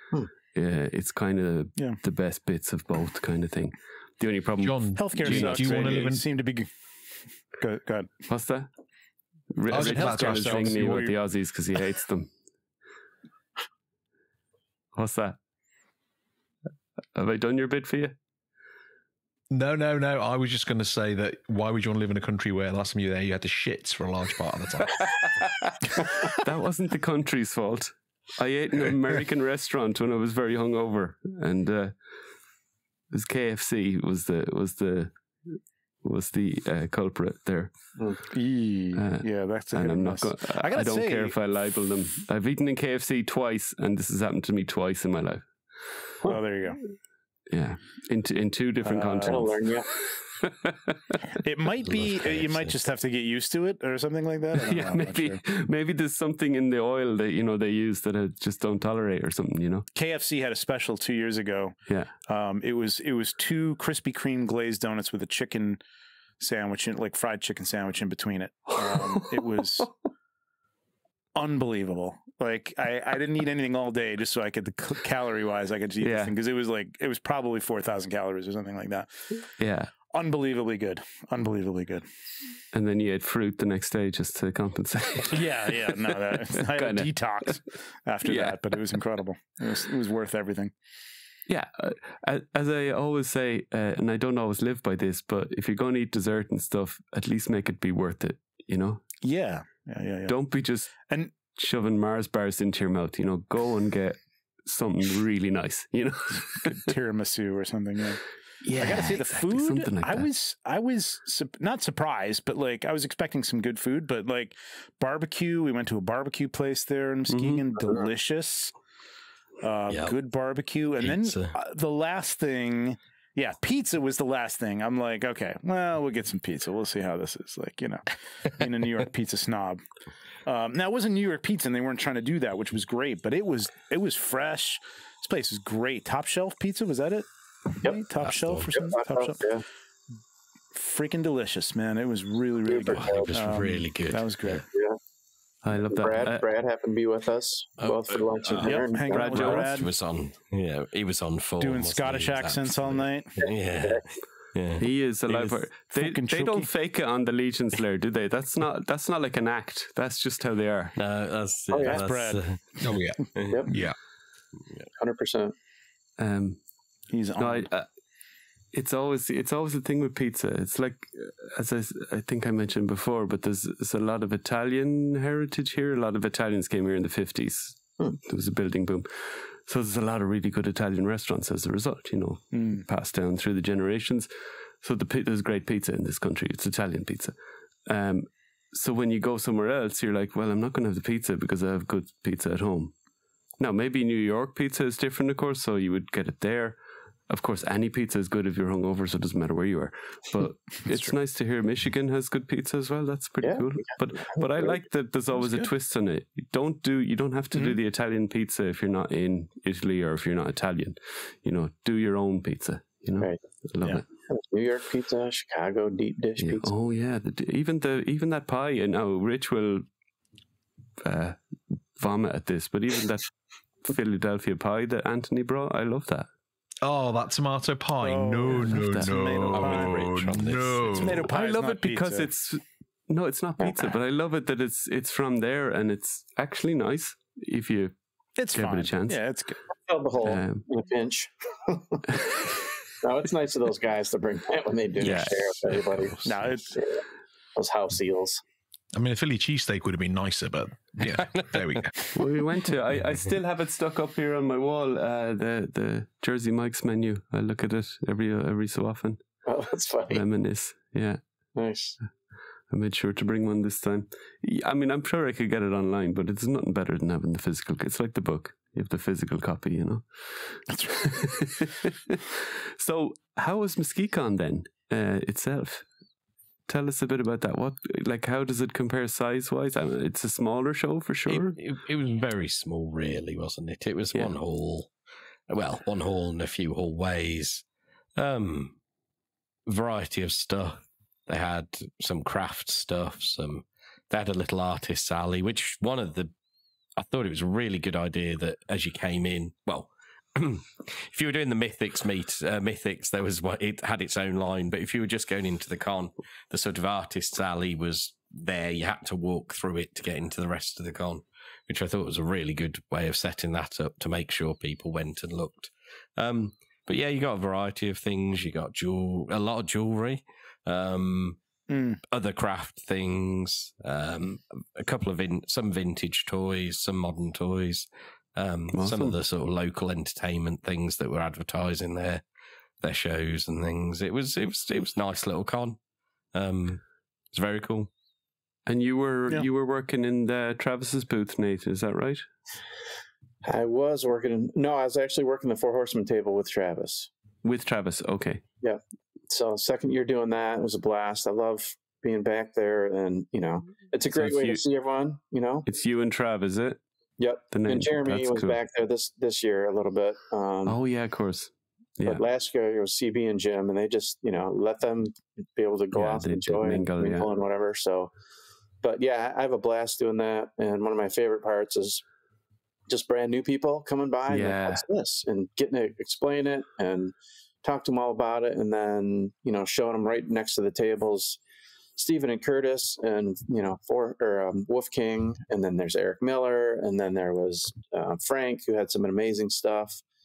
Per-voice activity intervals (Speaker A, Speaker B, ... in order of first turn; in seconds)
Speaker A: 0.5-6.0, 8.3-8.7, 9.5-12.3, 14.9-15.4, 17.1-18.1, 26.4-31.9, 33.1-37.7, 38.9-45.5, 47.5-51.2, 54.5-59.9, 68.8-69.6, 76.0-76.3, 79.6-79.9, 82.7-87.5, 88.2-88.8, 91.5-99.0, 100.3-100.9, 101.5-106.9, 108.6-110.3, 117.3-117.6, 145.6-146.5, 149.1-149.9, 154.8-161.0, 166.2-166.6, 167.4-167.9, 168.7-184.3, 184.8-187.3, 187.9-192.9, 193.6-214.1, 216.4-219.9, 221.0-221.4, 221.9-223.3, 223.8-226.3, 228.6-229.1, 231.2-237.9, 238.5-239.2, 240.2-240.6, 242.1-242.5, 245.0-245.8, 252.2-259.2, 260.1-261.2, 262.7-275.9, 276.7-281.6, 328.7-329.1, 338.6-342.2, 347.4-348.4, 354.1-354.6, 355.6-356.8, 357.5-358.6, 360.6-362.2, 365.9-367.3, 374.3-374.8
Speaker B: 4.6-6.2, 9.7-11.2, 19.5-25.5, 162.8-163.9, 226.8-231.3, 245.7-246.1, 248.9-251.9
Speaker C: 5.0-6.7, 7.6-8.1, 9.7-11.2, 38.3-41.4, 46.2-46.8, 48.8-49.4, 51.4-55.4, 60.0-61.7, 62.3-65.8, 66.4-69.9, 71.4-79.4, 80.1-82.0, 85.3-90.7, 99.2-100.4, 106.7-108.2, 108.7-118.7, 119.6-129.8, 130.4-139.4, 140.7-144.6, 148.6-149.9, 151.6-153.4, 155.9-156.7, 161.8-162.4, 167.1-167.7, 182.5-182.8, 200.8-201.1, 205.3-205.7, 207.5-207.8, 228.0-230.0, 230.9-232.3, 238.4-239.6, 246.2-246.7, 270.7-271.1, 321.7-322.0
Speaker D: 49.3-49.9, 138.7-139.6, 142.7-143.3, 144.7-145.0, 145.8-149.6, 153.4-154.0, 161.7-162.0, 165.0-165.5, 203.4-204.8, 214.3-216.7, 233.6-233.9, 239.9-247.0, 247.6-248.4, 259.4-260.2, 261.6-262.0, 343.4-347.1, 348.6-355.6, 357.2-360.8, 362.1-368.1, 368.8-372.0, 372.9-381.4, 382.0-390.0
Speaker E: 51.9-52.8, 119.9-120.2, 121.0-121.5, 138.2-138.7, 142.8-144.6, 147.8-155.6, 161.0-163.7, 229.5-231.1, 251.1-252.1, 281.3-284.9, 285.5-287.6, 288.2-288.8, 289.6-296.3, 296.9-321.4, 322.1-332.2, 332.8-335.8, 336.3-336.8, 337.3-337.9